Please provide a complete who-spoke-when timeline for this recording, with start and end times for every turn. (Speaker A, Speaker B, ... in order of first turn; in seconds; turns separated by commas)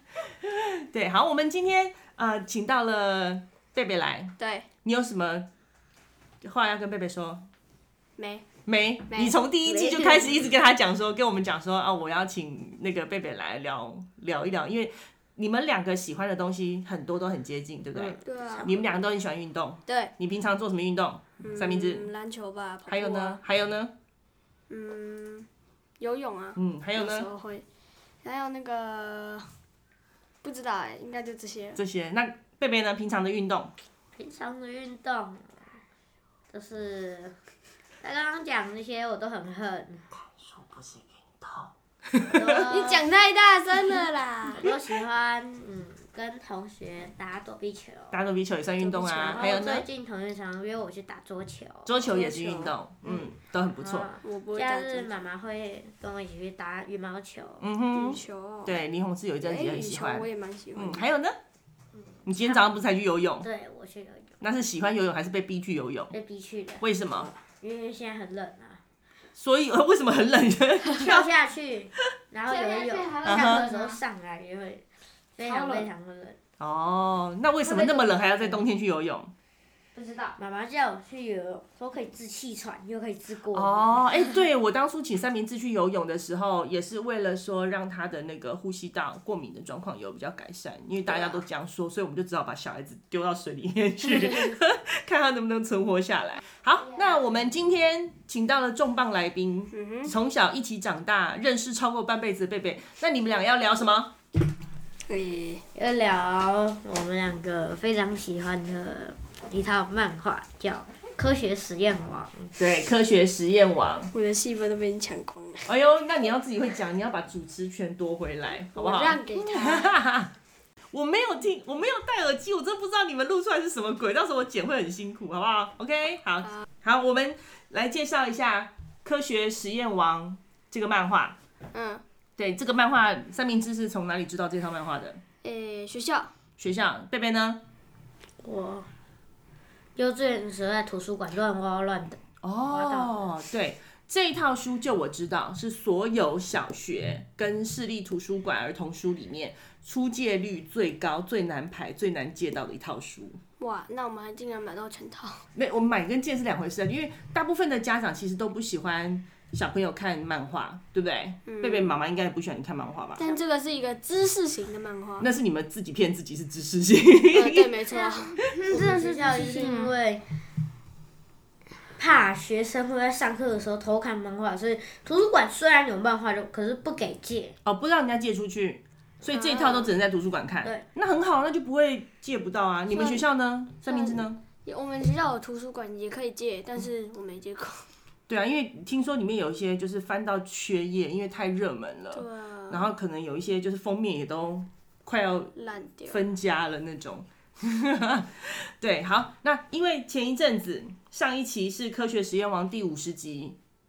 Speaker A: 0.4-5.5, Speaker B: 4.4-4.7, Speaker A: 6.4-7.5, Speaker B: 8.2-8.4, Speaker A: 8.7-22.1, Speaker B: 9.1-9.4, Speaker C: 9.6-10.5, Speaker C: 17.9-18.9, Speaker B: 18.2-18.7, Speaker B: 19.9-20.1, Speaker B: 21.4-23.4, Speaker A: 22.9-23.9, Speaker B: 24.7-25.4, Speaker B: 26.0-27.6, Speaker A: 26.6-27.3, Speaker B: 28.2-29.4, Speaker B: 30.4-31.8, Speaker A: 31.8-33.7, Speaker C: 34.1-35.8, Speaker C: 36.5-37.4, Speaker C: 38.0-40.0, Speaker A: 40.4-42.6, Speaker C: 42.2-43.1, Speaker B: 42.4-44.7, Speaker C: 43.8-48.2, Speaker A: 48.1-49.9, Speaker B: 48.9-49.4, Speaker C: 49.2-52.0, Speaker A: 51.9-54.1, Speaker B: 52.0-53.2, Speaker C: 53.8-57.6, Speaker B: 54.2-55.1, Speaker A: 57.6-61.4, Speaker B: 57.9-58.8, Speaker B: 59.4-61.0, Speaker C: 61.9-62.6, Speaker A: 62.2-63.5, Speaker C: 63.4-64.4, Speaker A: 64.4-66.1, Speaker C: 66.1-68.8, Speaker A: 66.8-67.3, Speaker A: 69.3-71.3, Speaker C: 70.8-76.4, Speaker D: 72.5-74.0, Speaker A: 73.2-73.6, Speaker D: 75.4-75.9, Speaker A: 76.6-79.3, Speaker D: 77.6-78.6, Speaker D: 79.9-80.3, Speaker C: 80.4-84.1, Speaker A: 83.5-104.1, Speaker C: 91.1-91.4, Speaker B: 99.7-100.1, Speaker B: 105.1-105.6, Speaker C: 105.7-112.5, Speaker A: 112.6-114.1, Speaker B: 114.1-115.7, Speaker A: 115.7-120.3, Speaker B: 118.7-119.9, Speaker A: 120.9-131.3, Speaker B: 131.7-132.0, Speaker A: 132.4-135.2, Speaker B: 135.4-136.3, Speaker A: 136.6-137.6, Speaker C: 138.4-138.9, Speaker C: 139.9-143.3, Speaker A: 142.4-153.4, Speaker B: 153.6-155.4, Speaker A: 155.5-163.3, Speaker B: 161.5-161.9, Speaker B: 163.2-165.3, Speaker A: 165.2-167.8, Speaker B: 167.3-169.8, Speaker C: 168.7-170.2, Speaker D: 169.4-169.8, Speaker C: 172.0-177.6, Speaker A: 177.6-184.4, Speaker C: 179.2-179.6, Speaker B: 179.6-179.8, Speaker B: 182.9-183.2, Speaker B: 183.8-187.9, Speaker A: 188.3-195.5, Speaker B: 192.1-192.9, Speaker B: 195.6-196.2, Speaker A: 196.1-203.6